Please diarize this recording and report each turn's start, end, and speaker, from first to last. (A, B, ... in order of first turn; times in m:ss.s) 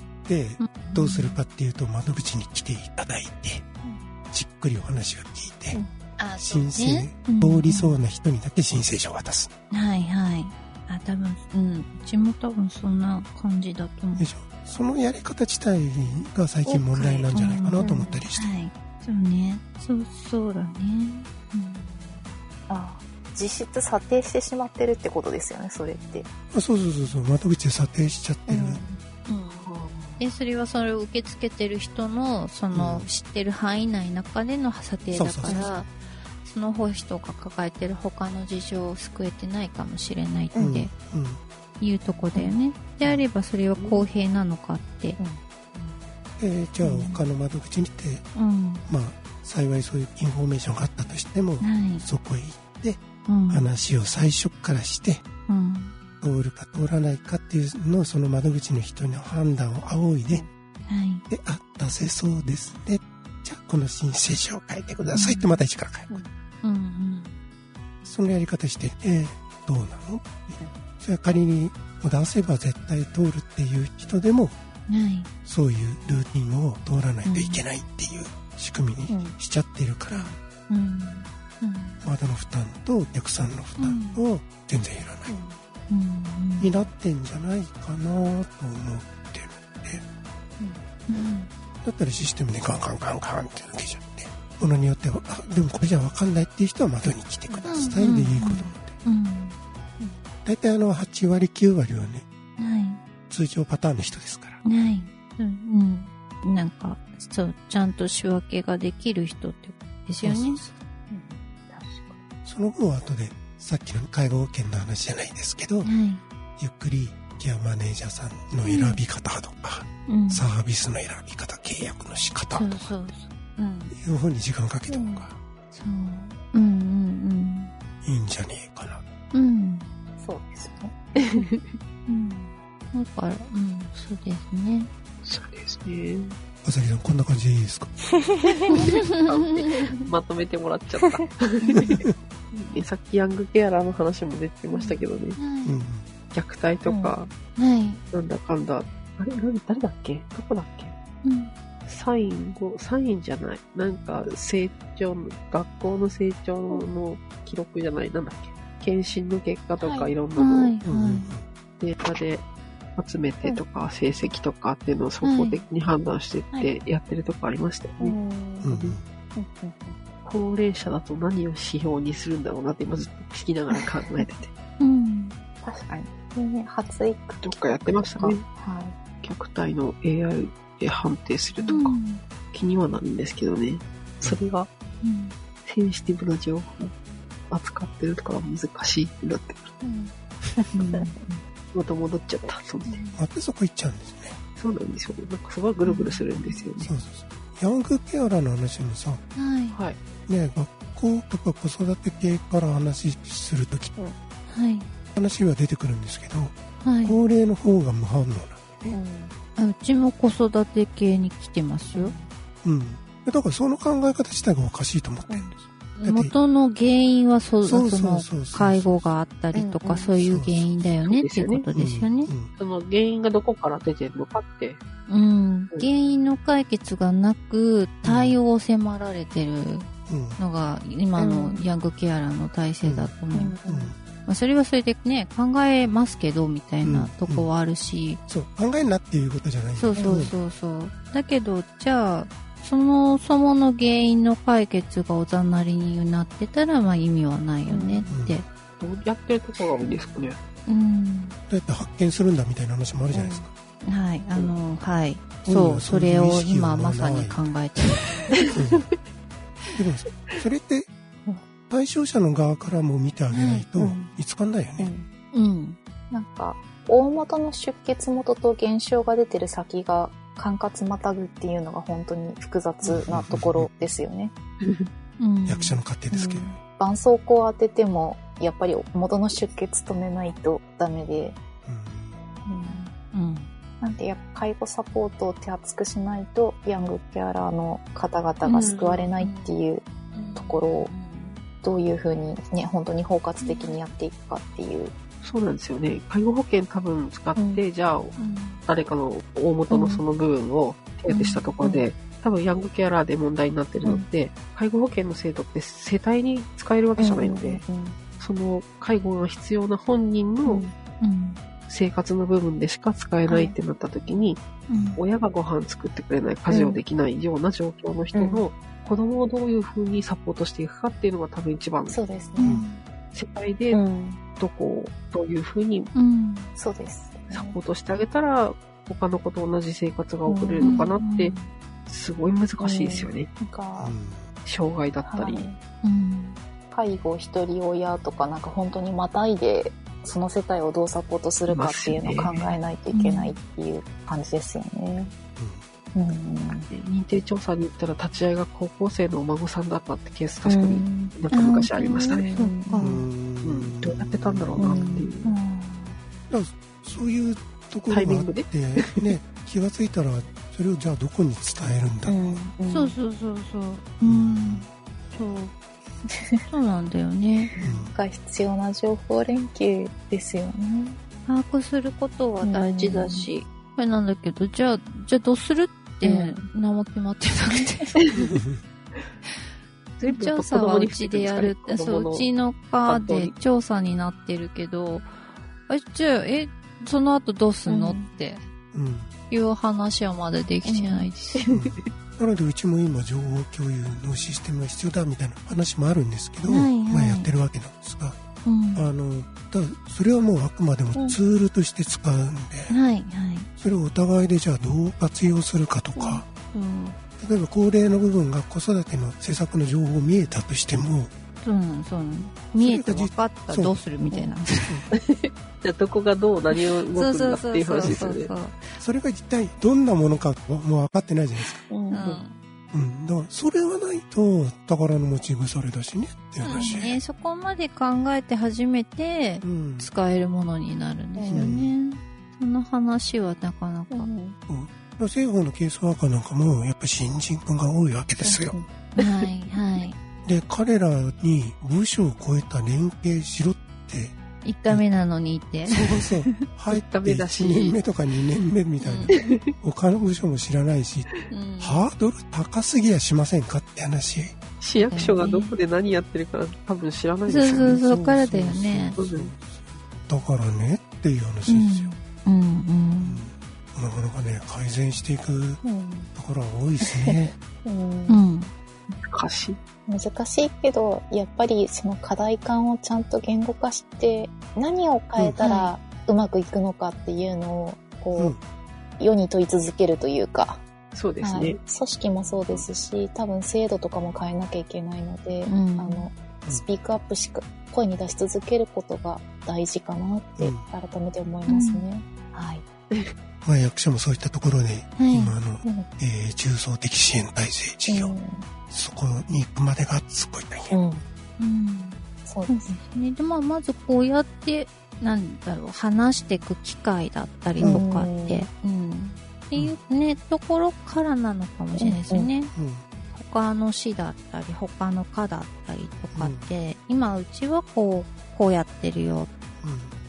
0:00.2-0:03.6 A
0:00.6-0:01.4 B
0:03.8-0:04.1 C
0:04.3-0:05.8 A
0:06.2-0:08.0 B
0:06.4-0:09.5 A
0:09.7-0:14.3 B
0:14.2-0:18.6 A
0:16.7-0:22.4 B
0:17.0-0:17.3 D
0:17.8-0:18.2 C
0:22.7-0:26.3 C
0:26.5-0:28.8 A
0:28.5-0:29.0 C
0:29.3-0:40.9 B
0:29.5-0:30.2 D
0:32.7-0:33.1 A
0:35.1-0:35.7 A
0:35.4-0:35.7 C
0:40.5-0:40.8 C
0:40.6-0:41.4 A
0:41.8-0:45.2 B
0:43.8-0:44.1 D
0:45.2-0:46.1 C
0:46.4-0:48.3 A
0:46.8-0:47.2 B
0:48.3-0:48.8 B
0:48.9-0:55.2 A
0:51.6-0:52.0 B
0:53.2-0:53.7 B
0:55.5-0:55.9 B
0:56.2-1:00.4 A
1:00.9-1:01.2 B
1:01.3-1:06.1 A
1:05.1-1:05.6 B
1:06.6-1:07.4 B
1:08.0-1:14.5 A
1:14.9-1:15.3 B
1:15.4-1:20.3 A
1:17.2-1:17.6 B
1:19.1-1:19.4 C
1:20.7-1:22.0 B
1:22.0-1:25.4 A
1:23.8-1:24.2 B
1:25.3-1:25.6 C
1:25.9-1:26.7 B
1:26.6-1:30.0 A
1:31.1-1:31.5 B
1:31.8-1:38.9 A
1:37.6-1:39.6 B
1:40.4-1:42.2 A
1:42.6-1:43.0 B
1:43.3-1:44.6 A
1:44.6-1:50.6 B
1:50.3-1:50.7 A
1:50.3-1:52.2 C
1:52.4-1:55.9 A
1:55.8-1:56.2 B
1:56.6-2:03.0 A
1:58.6-1:59.0 B
2:00.1-2:00.4 B
2:02.5-2:03.9 B
2:03.9-2:05.4 A
2:04.9-2:05.3 C
2:05.7-2:07.7 B
2:08.0-2:09.0 A
2:09.3-2:09.9 B
2:10.2-2:11.0 C
2:11.2-2:11.8 D
2:12.1-2:14.9 B
2:15.2-2:16.4 D
2:16.6-2:17.9 A
2:18.2-2:18.9 C
2:18.7-2:25.4 D
2:18.7-2:20.0 B
2:21.8-2:22.1 A
2:24.7-2:25.0 C
2:25.4-2:25.8 B
2:25.6-2:26.0 A
2:26.3-2:27.3 D
2:26.9-2:27.1 C
2:27.6-2:28.0 B
2:28.1-2:30.9 D
2:31.2-2:31.5 B
2:31.9-2:40.7 D
2:39.8-2:40.1 C
2:40.4-2:41.3 B
2:40.8-2:41.4 A
2:41.8-2:48.2 D
2:45.2-2:45.6 B
2:48.0-2:48.7 C
2:48.6-2:49.0 A
2:49.4-2:50.0 C
2:50.2-2:54.5 D
2:53.7-2:54.2 C
2:54.8-2:55.3 B
2:55.6-2:59.0 C
2:57.4-2:58.4 D
2:59.2-3:01.9 D
3:01.7-3:02.2 B
3:02.5-3:04.7 D
3:04.2-3:04.5 A
3:05.0-3:05.4 B
3:05.6-3:06.9 D
3:07.5-3:09.7 D
3:09.8-3:11.2 C
3:10.8-3:11.1 B
3:11.7-3:13.0 D
3:12.9-3:13.2 B
3:13.1-3:14.4 A
3:14.6-3:16.9 D
3:15.9-3:16.1 C
3:16.8-3:19.2 A
3:19.3-3:19.8 B
3:19.7-3:20.0 D
3:20.3-3:23.9 A
3:24.5-3:24.9 B
3:25.1-3:29.0 A
3:26.8-3:27.2 B
3:28.9-3:29.3 C
3:29.6-3:32.1 B
3:31.9-3:32.3 C
3:32.6-3:36.3 A
3:35.3-3:35.5 C
3:36.0-3:42.3 B
3:37.6-3:39.1 A
3:39.5-3:40.1 C
3:40.2-3:40.8 A
3:41.0-3:41.6 D
3:41.7-3:42.5 A
3:42.6-3:44.8 D
3:45.1-3:53.6 B
3:48.0-3:48.4 A
3:50.1-3:50.4 A
3:51.2-3:51.6 C
3:52.8-3:53.1 A
3:53.3-3:53.9 C
3:53.7-3:54.0 A
3:54.2-3:58.2 B
3:56.8-3:57.5 A
3:58.3-4:00.3 A
3:59.7-4:08.5 B
4:00.0-4:00.3 C
4:07.7-4:08.1 C
4:08.1-4:08.4 A
4:08.8-4:10.4 D
4:10.7-4:11.4 B
4:11.5-4:13.5 A
4:13.1-4:13.5 C
4:13.9-4:18.4 B
4:15.4-4:17.5 A
4:18.5-4:18.9 A
4:19.7-4:20.9 A
4:21.7-4:24.9 A
4:23.3-4:23.7 B
4:23.8-4:24.2 C
4:24.8-4:25.1 C
4:25.3-4:25.8 B
4:26.1-4:34.3 C
4:32.8-4:33.9 A
4:34.6-4:34.9 D
4:35.2-4:35.8 B
4:35.4-4:36.6 A
4:36.1-4:41.4 C
4:41.6-4:42.2 A
4:42.5-4:42.9 C
4:43.1-4:43.5 B
4:43.8-4:49.8 C
4:48.4-4:49.1 D
4:49.2-4:49.5 B
4:50.1-4:51.4 B
4:50.4-4:50.9 C
4:51.6-4:54.9 C
4:53.4-4:53.8 B
4:55.2-5:07.6 D
4:57.4-4:57.6 C
4:58.2-4:58.7 B
4:59.7-5:00.0 C
5:01.1-5:01.5 B
5:07.0-5:08.0 C
5:08.2-5:10.6 D
5:10.4-5:10.7 C
5:11.0-5:11.4 B
5:11.7-5:14.4 D
5:13.3-5:13.5 C
5:14.7-5:15.0 B
5:14.7-5:15.0 A
5:15.0-5:22.0 D
5:16.5-5:16.8 C
5:18.1-5:18.4 C
5:21.9-5:22.6 C
5:22.4-5:22.8 B
5:23.1-5:23.8 D
5:23.7-5:24.2 C
5:24.4-5:25.9 D
5:25.9-5:26.5 B
5:26.6-5:27.6 C
5:27.3-5:31.4 D
5:30.3-5:30.9 C
5:30.6-5:31.5 B
5:31.9-5:33.3 D
5:32.6-5:33.9 C
5:33.8-5:34.3 A
5:34.4-5:35.5 D
5:35.0-5:35.6 C
5:35.8-5:36.4 B
5:36.7-5:45.1 C
5:41.5-5:42.6 D
5:42.9-5:43.4 B
5:45.4-5:45.6 A
5:45.9-5:46.7 C
5:46.7-5:52.2 D
5:50.4-5:51.1 C
5:51.3-5:53.0 B
5:51.9-5:52.9 C
5:52.8-5:55.0 A
5:53.4-5:55.3 D
5:54.6-5:56.0 C
5:56.3-6:02.4 A
5:57.9-5:58.9 D
6:02.1-6:03.0 C
6:02.7-6:05.5 B
6:04.0-6:04.6 A
6:06.1-6:06.4 C
6:06.5-6:07.5 B
6:07.5-6:11.0 C
6:07.6-6:07.9 A
6:11.3-6:18.0 B
6:12.4-6:13.3 C
6:16.0-6:16.4 C
6:18.1-6:18.3 D
6:18.2-6:18.6 A
6:20.0-6:28.4 B
6:20.0-6:22.3 D
6:22.8-6:23.3 D
6:27.7-6:28.1 C
6:28.7-6:29.1 A
6:29.3-6:31.4 B
6:30.6-6:31.1 C
6:31.4-6:31.9 D
6:31.5-6:38.2 A
6:36.4-6:37.3 B
6:38.4-6:38.8 B
6:38.7-6:42.7 A
6:42.7-6:43.5 B
6:43.6-6:46.3 A
6:46.0-6:46.2 C
6:46.5-6:47.0 B
6:47.2-6:51.1 A
6:51.4-6:54.8 B
6:52.6-6:53.8 A
6:54.6-6:54.9 A
6:54.9-6:58.3 D
6:56.5-6:58.8 B
6:58.8-7:01.6 A
7:01.7-7:02.2 C
7:01.9-7:02.4 B
7:02.7-7:07.0 A
7:06.4-7:14.1 B
7:06.5-7:06.9 C
7:09.4-7:09.9 A
7:11.2-7:11.6 C
7:11.3-7:11.7 A
7:13.9-7:14.4 C
7:14.5-7:18.6 A
7:18.2-7:19.2 C
7:19.0-7:20.0 B
7:20.2-7:24.2 A
7:24.4-7:26.3 B
7:25.7-7:34.3 A
7:26.7-7:27.8 D
7:28.8-7:29.1 B
7:31.3-7:31.8 B
7:34.6-7:37.9 D
7:34.8-7:35.6 B
7:37.3-7:39.0 B
7:37.7-7:41.9 A
7:38.9-7:39.3 D
7:41.5-7:43.2 B
7:43.0-7:45.6 A
7:45.6-7:46.1 C
7:46.1-7:47.3 A
7:47.6-7:48.2 C
7:48.1-7:48.5 B
7:49.1-7:49.6 D
7:49.9-7:58.3 C
7:55.2-7:55.4 A
7:55.4-7:55.7 B
7:58.1-7:58.4 A
7:59.0-8:00.6 C
8:00.9-8:01.6 D
8:01.2-8:12.6 C
8:05.5-8:06.1 B
8:10.4-8:10.7 A
8:11.5-8:11.8 B
8:13.4-8:18.2 A
8:15.0-8:15.3 B
8:17.9-8:18.4 C
8:18.7-8:20.7 A
8:20.7-8:21.0 C
8:21.4-8:32.5 B
8:22.2-8:22.8 C
8:27.6-8:27.8 A
8:27.6-8:28.4 C
8:31.8-8:32.3 C
8:32.5-8:32.8 A
8:33.1-8:39.3 B
8:36.1-8:36.5 A
8:39.6-8:39.9 A